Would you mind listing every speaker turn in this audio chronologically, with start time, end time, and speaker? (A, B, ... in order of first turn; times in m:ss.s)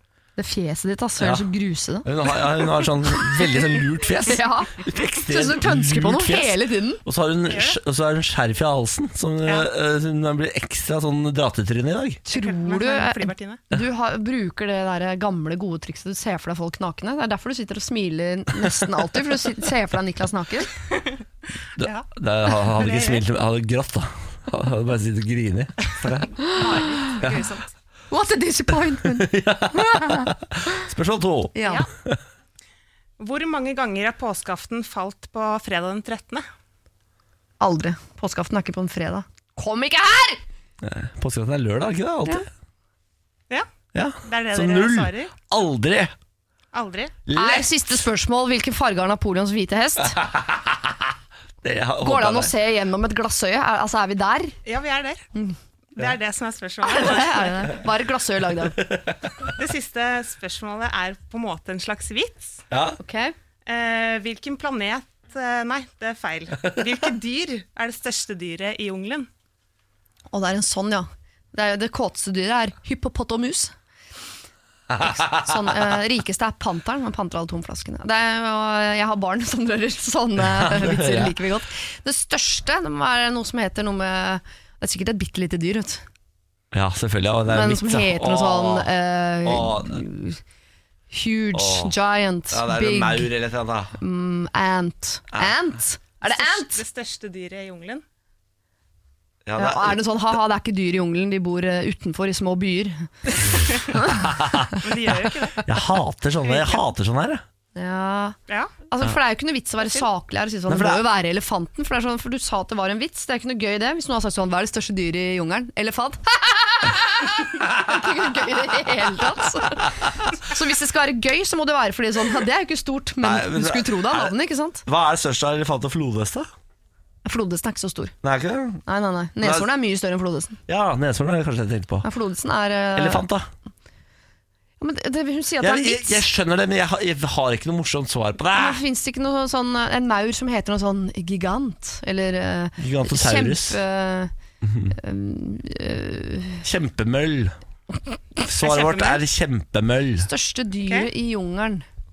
0:00.4-0:07.0 A
0:01.2-0:01.5 B
0:02.0-0:12.2 B
0:07.5-0:07.8 C
0:12.3-0:20.7 A
0:12.3-0:13.6 C
0:21.8-0:26.4 B
0:21.8-0:23.2 C
0:26.4-0:27.7 C
0:26.5-0:27.2 A
0:28.1-0:30.3 A
0:29.0-0:32.2 B
0:31.6-0:31.9 A
0:31.6-0:31.9 C
0:33.2-0:36.4 C
0:37.6-0:40.4 A
0:40.8-0:42.5 B
0:43.9-0:46.1 B
0:44.2-0:45.3 C
0:46.7-0:47.2 C
0:47.3-0:47.7 B
0:47.3-0:50.2 A
0:50.2-0:51.0 B
0:51.6-0:52.5 B
0:52.0-0:54.6 A
0:54.7-0:55.2 C
0:56.0-0:57.7 C
0:56.8-0:58.8 A
0:58.8-0:59.2 B
0:59.6-1:02.6 C
1:02.7-1:03.0 B
1:03.0-1:03.4 A
1:03.7-1:09.3 C
1:10.3-1:13.7 A
1:14.9-1:15.6 B
1:15.0-1:26.0 A
1:20.5-1:21.4 B
1:26.7-1:28.9 B
1:27.5-1:30.4 A
1:29.4-1:30.0 B
1:31.1-1:33.3 A
1:31.5-1:31.9 B
1:32.5-1:34.0 B
1:34.0-1:36.8 A
1:36.2-1:38.0 C
1:39.5-1:40.0 B
1:39.6-1:44.2 A
1:44.1-1:44.8 B
1:44.8-1:45.7 C
1:45.6-1:47.4 B
1:46.4-1:46.8 C
1:47.8-2:04.8 A
1:48.5-1:48.8 C
1:50.7-1:51.0 B
2:03.2-2:04.3 B
2:04.8-2:06.5 B
2:07.2-2:08.2 A
2:08.2-2:08.8 B
2:08.9-2:10.6 A
2:09.4-2:09.7 B
2:10.7-2:12.1 B
2:12.0-2:13.3 A
2:13.0-2:13.5 B
2:14.8-2:16.2 A
2:15.6-2:18.8 B
2:18.5-2:24.3 A
2:22.8-2:23.8 B
2:24.6-2:25.0 B
2:24.9-2:26.6 A
2:26.6-2:27.6 B
2:28.4-2:30.3 B
2:28.6-2:29.2 C
2:30.2-2:31.9 A